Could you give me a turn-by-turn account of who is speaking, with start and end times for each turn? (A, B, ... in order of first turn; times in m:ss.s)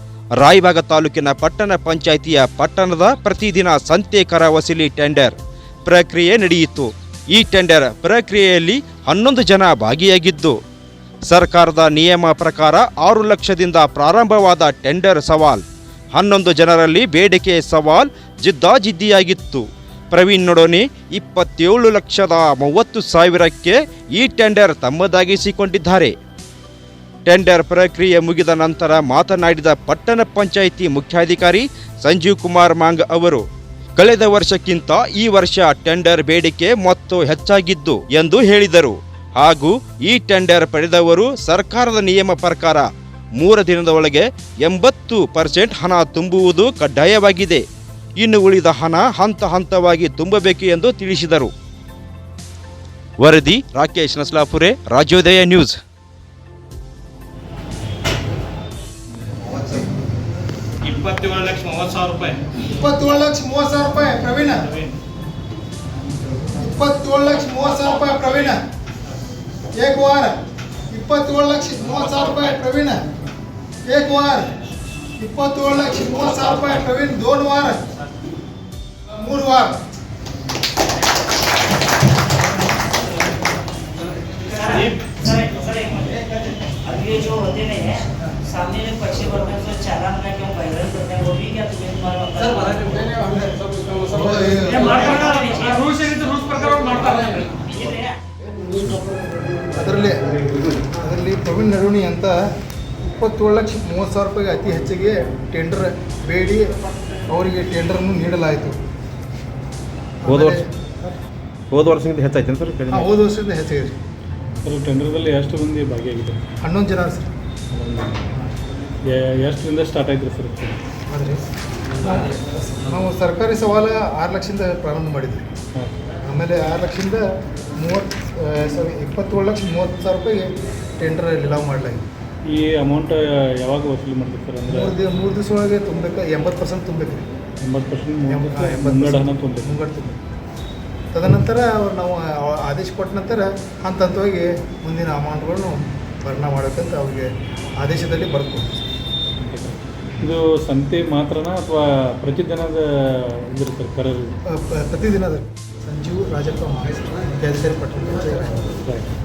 0:00.4-0:10.6 A
0:11.3-0:15.6 A
0:16.1-0:26.1 A
0:27.2-0:33.4 A
0:34.0-0:47.6 A
0:48.2-0:51.5 A
0:53.2-0:55.8 A
1:00.8-1:02.5 B
1:02.6-1:04.8 C
1:06.6-1:08.6 C
1:09.7-1:10.3 C
1:10.9-1:13.0 C
1:13.8-1:14.5 C
1:15.2-1:17.8 C
1:19.1-1:19.8 C
1:24.5-1:26.2 D
1:26.8-1:33.2 D
1:34.0-1:35.3 C
1:35.0-1:36.0 D
1:35.8-1:37.6 B
1:38.7-1:39.0 C
1:39.7-1:42.4 C
1:43.1-1:46.7 C
1:47.3-1:48.8 C
1:50.2-1:51.2 C
1:50.3-1:50.6 A
1:51.7-1:53.1 A
1:52.9-1:54.0 C
1:54.6-1:56.4 E
1:56.6-1:57.3 C
1:57.7-1:58.2 E
1:59.1-2:00.8 E
2:01.1-2:05.4 C
2:06.2-2:07.2 C
2:07.8-2:12.0 C
2:12.5-2:14.9 E
2:14.7-2:17.3 C
2:17.6-2:19.7 E
2:18.3-2:20.2 C
2:21.1-2:28.8 C
2:29.4-2:34.3 E
2:34.5-2:38.8 C